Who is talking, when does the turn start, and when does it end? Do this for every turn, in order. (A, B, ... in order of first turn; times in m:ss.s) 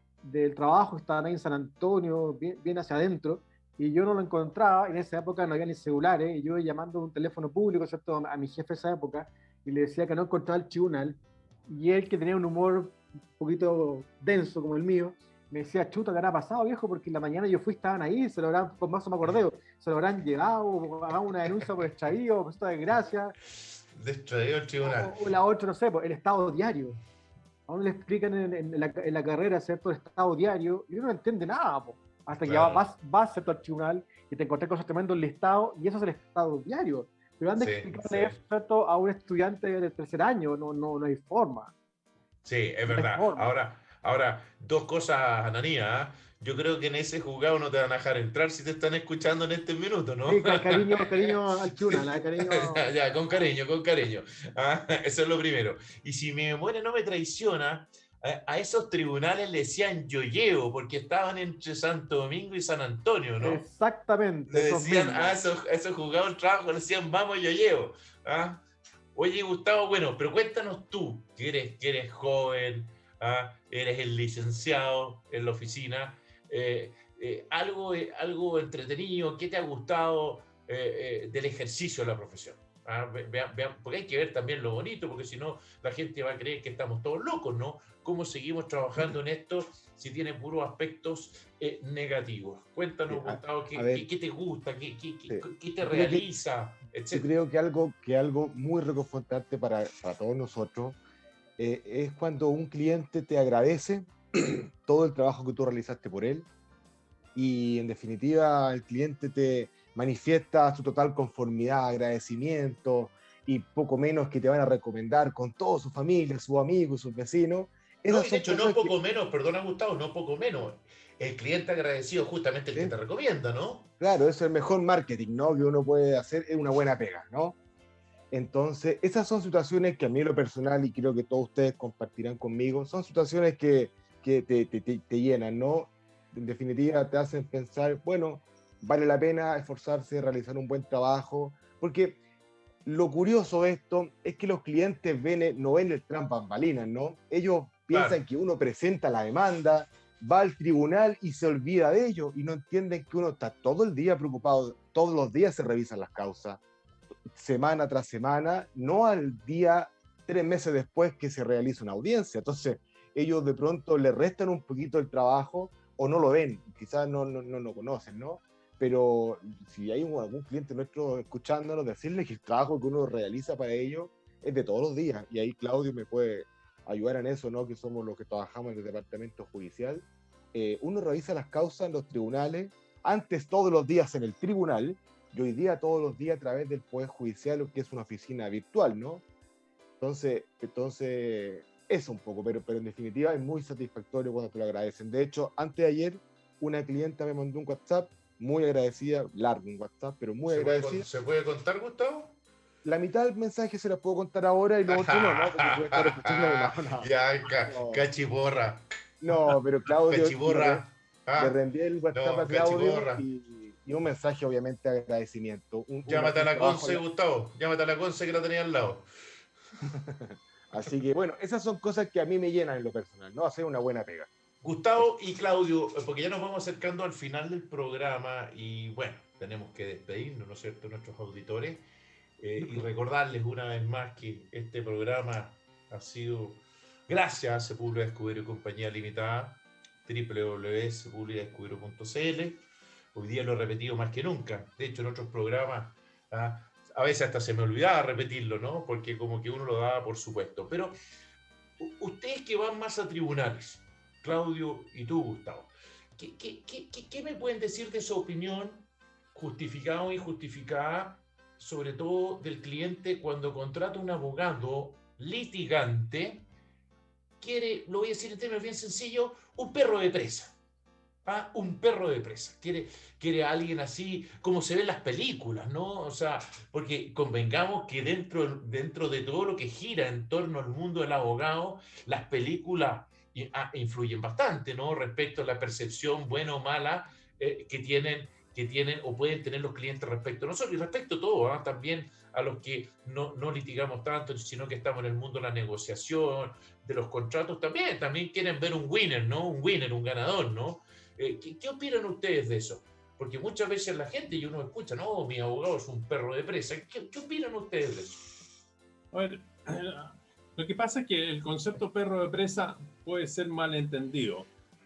0:00.2-0:23.4 A
0:23.9-0:25.1 B
0:24.8-0:27.0 A
0:27.7-0:41.7 A
0:32.3-0:32.8 B
0:37.6-0:38.4 B
0:42.4-1:03.6 B
0:42.9-0:43.5 A
0:50.2-0:52.9 A
1:03.4-1:05.4 A
1:04.5-1:08.6 B
1:09.2-1:37.3 B
1:33.1-1:34.1 C
1:35.3-1:36.3 C
1:37.1-1:41.0 C
1:41.6-1:46.5 C
1:47.4-1:58.9 C
1:58.1-2:03.9 B
2:04.0-2:07.6 C
2:08.3-2:22.2 C
2:22.8-2:36.6 C
2:27.9-2:28.2 B
2:37.3-3:09.2 C
3:10.0-3:21.1 C
3:20.5-3:22.4 B
3:22.8-3:27.1 C
3:24.9-3:28.8 B
3:27.6-3:28.0 C
3:29.2-3:30.8 C
3:30.0-3:31.6 B
3:31.4-3:37.0 C
3:32.1-3:33.2 B
3:36.1-3:39.1 B
3:39.9-3:44.3 C
3:44.6-3:51.9 B
3:52.4-4:02.6 B
3:52.6-3:52.8 C
4:03.1-4:11.0 B
4:11.8-4:26.4 B
4:27.4-4:30.6 B
4:31.2-5:08.2 B
5:09.1-5:14.5 D